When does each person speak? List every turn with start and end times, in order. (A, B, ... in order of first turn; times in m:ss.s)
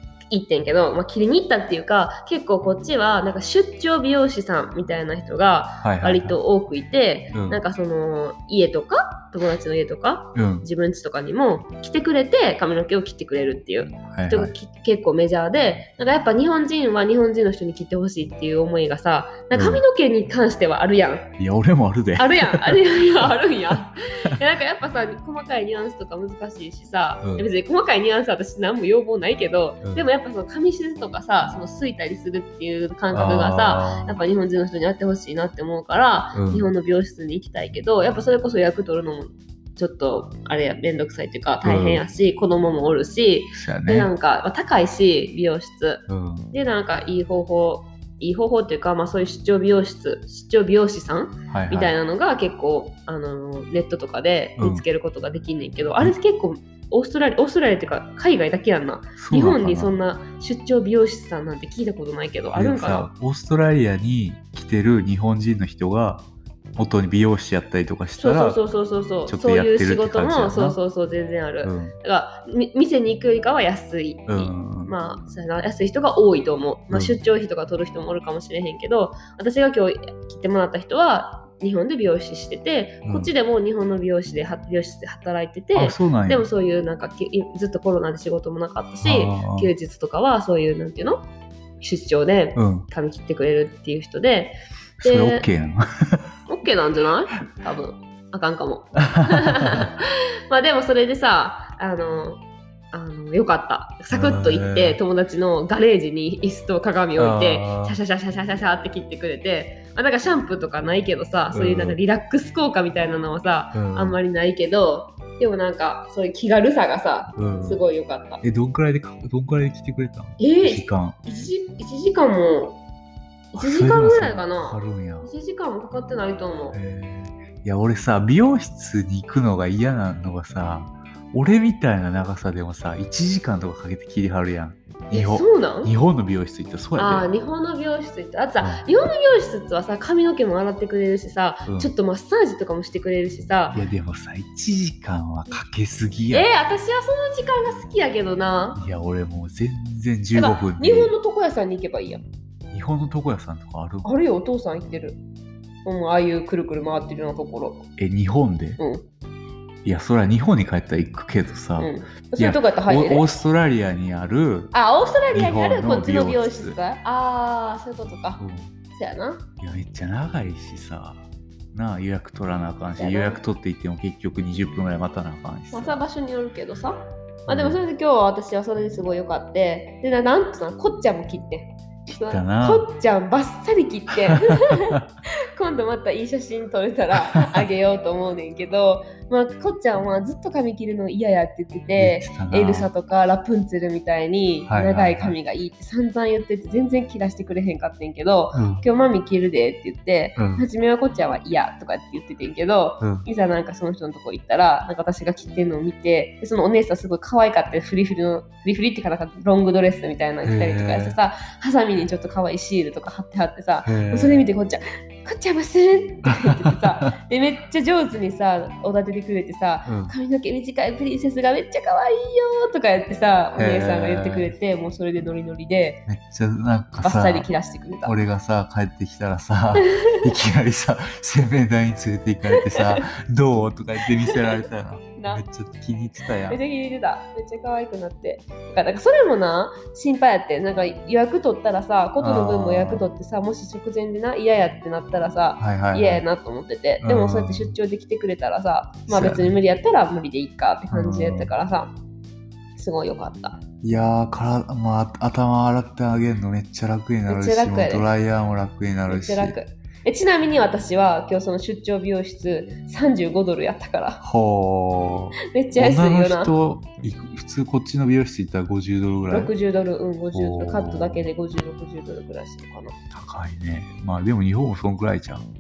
0:00.3-0:21.3 A
0:05.8-0:06.4 B
0:07.3-0:07.6 B
0:10.3-0:10.6 B
0:14.1-0:14.5 B
0:19.5-0:19.8 B
0:21.4-0:23.9 B
0:22.2-1:03.1 A
0:27.2-0:27.5 B
0:33.1-0:34.2 B
0:36.3-0:36.7 B
0:41.6-0:42.0 B
0:43.5-0:44.1 B
0:46.1-0:46.5 B
0:51.5-0:51.9 B
0:54.6-0:54.8 B
0:59.2-0:59.9 B
1:02.5-1:06.2 B
1:06.8-1:08.6 B
1:08.2-1:31.2 A
1:09.3-1:10.8 B
1:11.6-1:11.9 B
1:14.3-1:14.9 B
1:16.9-1:17.2 B
1:23.0-1:23.3 B
1:25.7-1:26.4 B
1:29.0-1:29.7 B
1:31.8-1:35.5 A
1:32.6-1:32.8 B
1:35.0-1:36.3 B
1:36.5-1:58.4 A
1:39.2-1:39.9 B
1:44.1-1:45.0 B
1:47.2-1:48.0 B
1:51.5-1:52.0 B
1:53.7-1:54.2 B
1:57.4-1:57.8 B
1:58.4-2:01.5 B
2:00.4-2:02.8 A
2:03.5-2:06.8 A
2:03.5-2:05.3 B
2:06.7-2:17.3 B
2:15.1-2:15.9 A
2:17.0-2:23.8 A
2:18.6-2:18.8 B
2:21.7-2:21.9 B
2:23.7-2:26.5 B
2:26.3-2:28.8 A
2:28.7-2:31.1 B
2:30.3-2:32.2 A
2:32.7-2:34.1 B
2:34.0-2:35.2 A
2:35.8-2:37.9 A
2:38.0-2:38.8 B
2:38.8-2:39.0 A
2:39.8-2:44.7 B
2:41.8-2:43.3 A
2:44.7-2:48.4 A
2:45.3-2:46.8 B
2:48.4-2:48.7 B
2:48.9-2:49.4 A
2:49.6-2:56.0 B
2:53.0-2:53.4 A
2:55.7-3:05.0 A
2:57.5-2:57.8 B
3:02.1-3:02.9 B
3:04.3-3:05.0 B
3:05.5-3:46.0 A
3:07.2-3:07.6 B
3:12.0-3:12.9 B
3:14.7-3:15.4 B
3:18.5-3:18.8 B
3:20.4-3:20.6 B
3:23.0-3:23.2 B
3:30.4-3:31.2 B
3:33.8-3:34.5 B
3:36.2-3:36.9 B
3:39.8-3:40.1 B
3:43.6-3:44.5 B
3:46.1-3:47.5 B
3:47.0-3:48.2 A
3:48.0-3:56.6 B
3:49.8-3:50.2 A
3:52.6-3:53.0 A
3:54.3-3:54.6 A
3:55.2-3:55.4 A
3:56.5-4:11.9 A
4:02.2-4:03.0 B
4:05.6-4:06.2 B
4:07.0-4:07.7 B
4:09.1-4:09.6 B
4:10.9-4:11.5 B
4:12.8-4:13.6 A
4:13.8-4:19.6 B
4:17.3-4:18.1 A
4:19.1-4:24.2 A
4:24.2-4:29.5 B
4:25.5-4:26.5 A
4:29.3-4:32.9 A
4:30.3-4:31.3 B
4:33.1-4:35.4 B